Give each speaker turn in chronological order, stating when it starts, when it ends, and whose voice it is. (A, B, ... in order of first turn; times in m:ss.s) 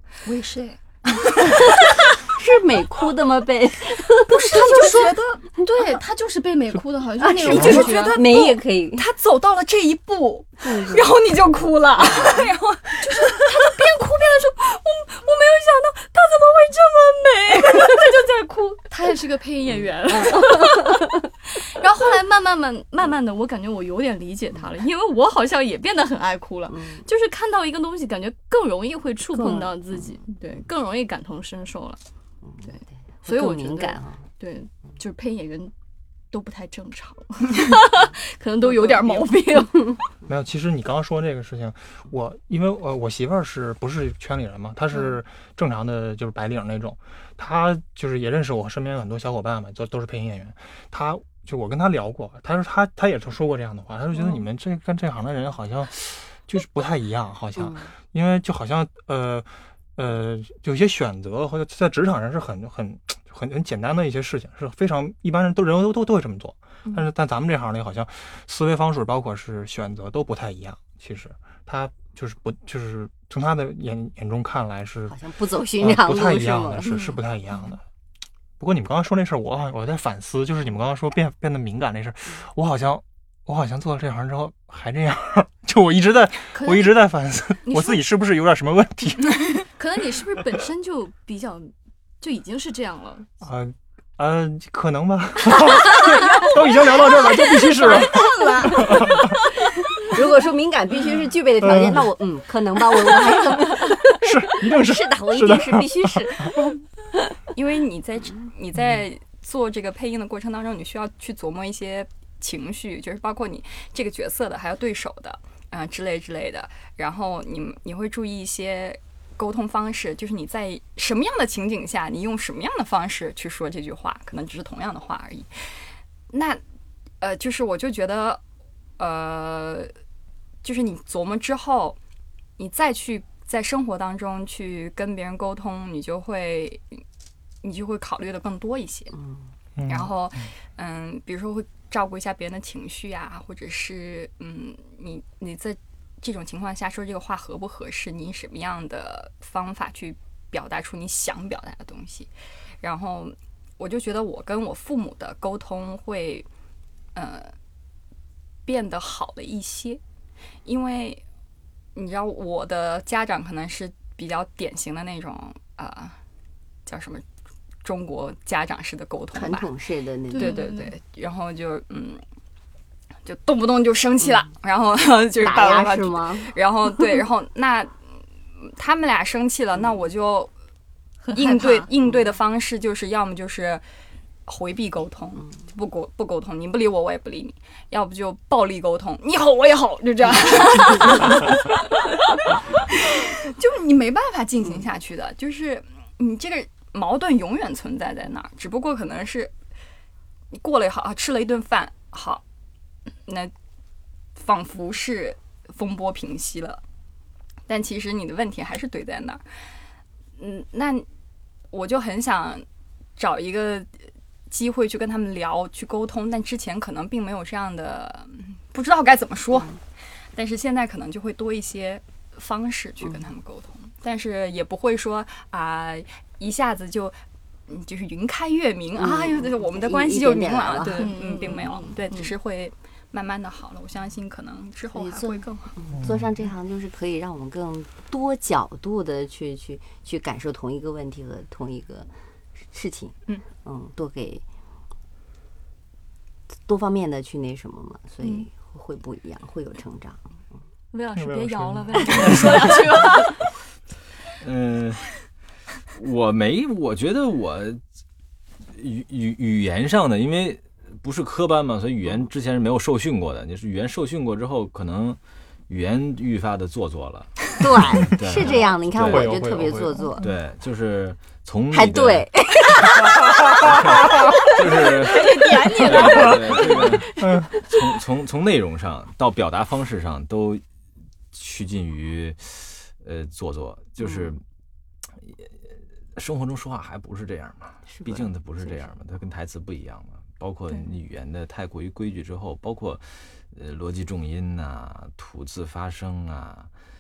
0:00.2-0:00.8 A
0:01.2-0:01.7 B
0:02.2-0:05.0 C
0:04.3-0:08.6 B
0:04.5-0:05.2 A
0:07.2-0:09.1 C
0:07.6-0:08.5 A
0:09.0-0:10.2 A
0:09.4-0:12.5 B
0:10.6-0:11.2 C
0:12.0-0:13.0 A
0:13.0-0:32.0 B
0:20.1-0:21.0 C
0:26.7-0:27.1 C
0:29.3-0:29.8 C
0:32.6-0:35.7 B
0:33.2-0:34.3 C
0:36.3-0:40.0 B
0:40.3-1:15.2 D
0:57.6-0:57.9 C
1:15.1-1:17.0 C
1:15.8-1:17.8 D
1:18.6-1:29.7 D
1:26.5-1:27.0 B
1:27.6-1:28.0 B
1:29.7-1:33.3 B
1:33.4-1:39.3 D
1:36.9-1:39.4 B
1:40.0-1:46.7 C
1:41.6-1:42.1 D
1:44.2-1:46.6 D
1:47.5-2:05.5 A
2:06.3-2:06.6 A
2:07.2-2:08.4 A
2:09.0-2:09.9 A
2:10.6-2:12.0 A
2:12.6-2:17.0 A
2:17.6-2:19.1 A
2:19.2-2:19.5 C
2:19.8-2:20.1 D
2:19.9-2:32.3 A
2:32.8-2:36.5 A
2:37.2-2:37.5 A
2:38.7-2:40.0 A
2:40.6-2:41.2 A
2:42.0-2:46.2 A
2:46.9-2:47.2 A
2:47.8-2:49.7 A
2:49.3-2:50.6 C
2:50.3-2:50.9 B
2:50.3-2:52.2 A
2:53.2-2:57.9 A
2:55.4-2:56.5 C
2:58.6-3:00.5 A
3:01.2-3:01.9 B
3:01.3-3:03.8 A
3:04.5-3:12.2 A
3:10.9-3:11.4 B
3:12.9-3:19.5 A
3:20.5-3:22.4 A
3:23.3-3:23.5 A
3:24.4-3:26.8 A
3:27.7-3:29.4 A
3:30.4-3:31.1 A
3:31.7-3:32.6 A
3:33.2-3:33.9 A
3:34.5-3:39.8 A
3:40.4-3:47.2 A
3:47.7-3:55.8 A
3:49.0-3:51.2 C
3:50.9-3:52.3 B
3:54.9-4:02.1 C
4:02.7-4:04.4 C
4:06.7-4:10.3 C
4:10.9-4:13.5 B
4:11.2-4:12.8 D
4:14.4-4:15.1 E
4:15.9-4:17.8 E
4:18.7-4:25.2 E
4:25.7-4:29.5 E
4:27.6-4:30.3 C
4:29.0-4:30.1 D
4:30.2-4:32.3 E
4:31.7-4:33.8 C
4:33.6-4:40.6 E
4:34.7-4:37.1 B
4:37.2-4:37.6 D
4:41.3-4:44.4 E
4:45.2-4:45.5 E
4:46.2-4:56.7 E
4:48.0-4:48.3 C